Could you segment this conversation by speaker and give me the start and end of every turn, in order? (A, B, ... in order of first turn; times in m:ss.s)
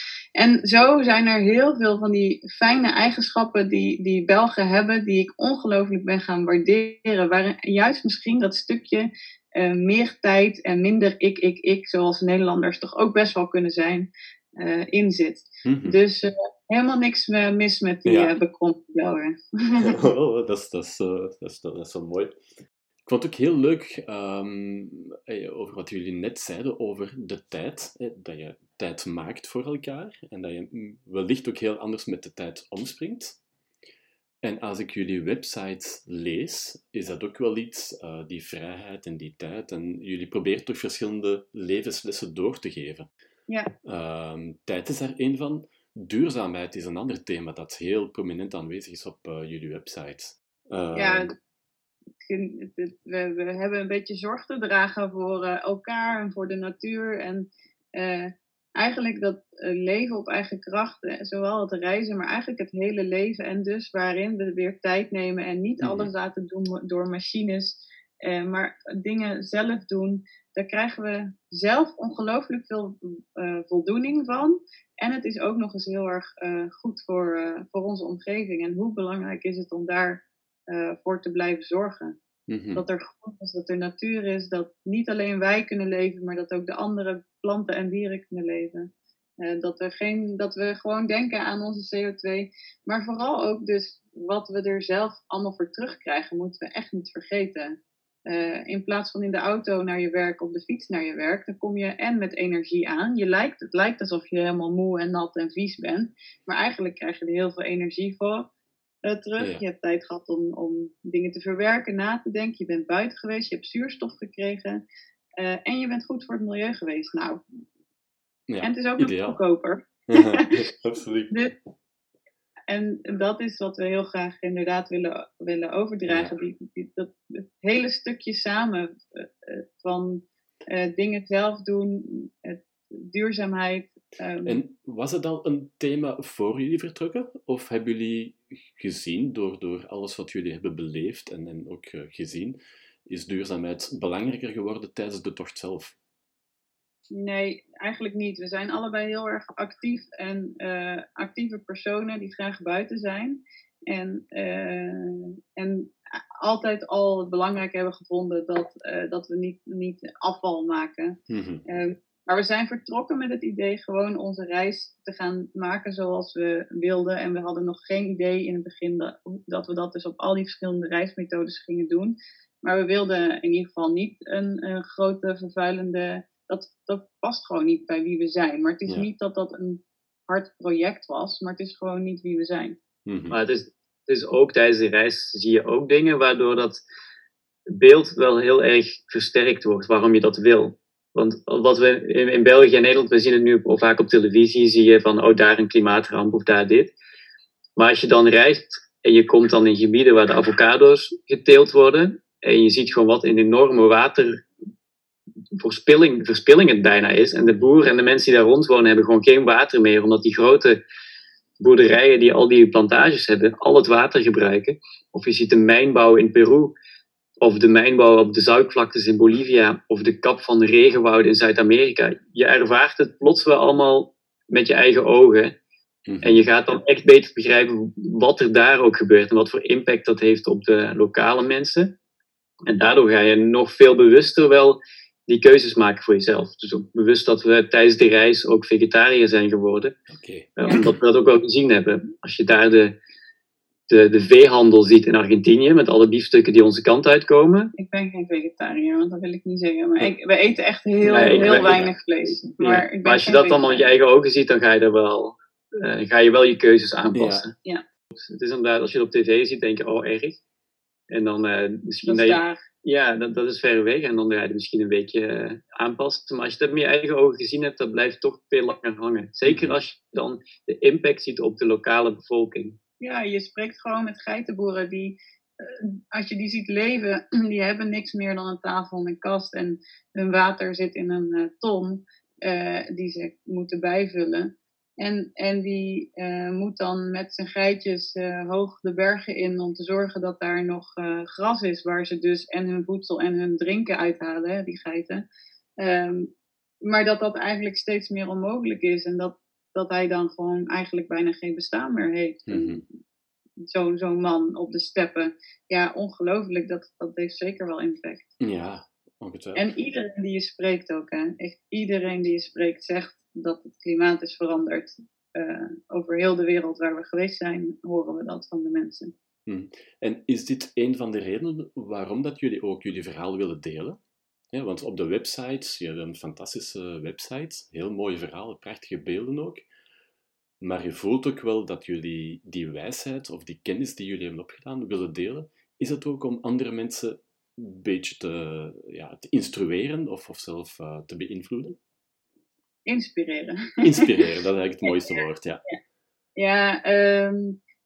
0:00.4-0:19.9 A
0:15.6-0:16.0 B
0:18.0-0:18.3 B
0:19.8-0:22.4 B
0:23.0-0:33.4 B
0:34.4-0:43.1 B
0:43.8-0:51.3 B
0:50.9-0:51.3 A
0:52.2-1:22.2 A
1:05.8-1:06.1 B
1:22.5-1:22.8 B
1:22.7-1:28.9 A
1:29.4-1:37.8 A
1:38.3-1:48.5 A
1:49.0-1:54.8 A
1:55.4-1:57.4 A
1:58.5-1:59.4 B
1:58.6-2:00.6 A
2:00.1-2:01.3 B
2:02.7-2:14.6 A
2:06.1-2:06.3 B
2:14.4-2:25.9 B
2:27.1-3:02.8 A
2:41.3-2:41.6 B
3:03.0-3:03.4 B
3:03.3-3:06.8 C
3:07.7-3:16.9 C
3:17.8-3:24.4 C
3:25.6-3:30.8 C
3:31.6-3:36.7 C
3:37.4-3:45.5 C
3:46.1-3:46.4 B
3:46.2-3:51.9 C
3:52.7-3:59.9 C
4:00.1-4:01.0 B
4:00.6-4:03.0 C
4:03.9-4:07.7 C
4:07.8-4:13.8 A
4:11.0-4:11.9 C
4:11.2-4:11.9 B
4:12.6-4:17.5 C
4:17.1-4:17.4 B
4:18.1-4:20.4 C
4:21.1-4:32.8 C
4:22.0-4:22.6 A
4:29.4-4:29.8 B
4:33.0-4:55.2 A
4:55.8-4:56.3 A
4:56.8-5:02.8 A
5:02.5-5:02.8 B
5:03.7-5:08.3 A
5:08.4-5:09.6 B
5:09.5-5:19.1 A
5:19.5-5:24.0 B
5:24.5-5:29.6 B
5:30.6-5:41.8 B
5:42.8-5:44.1 A
5:43.8-5:45.6 B
5:44.9-5:45.2 A
5:46.4-5:47.6 A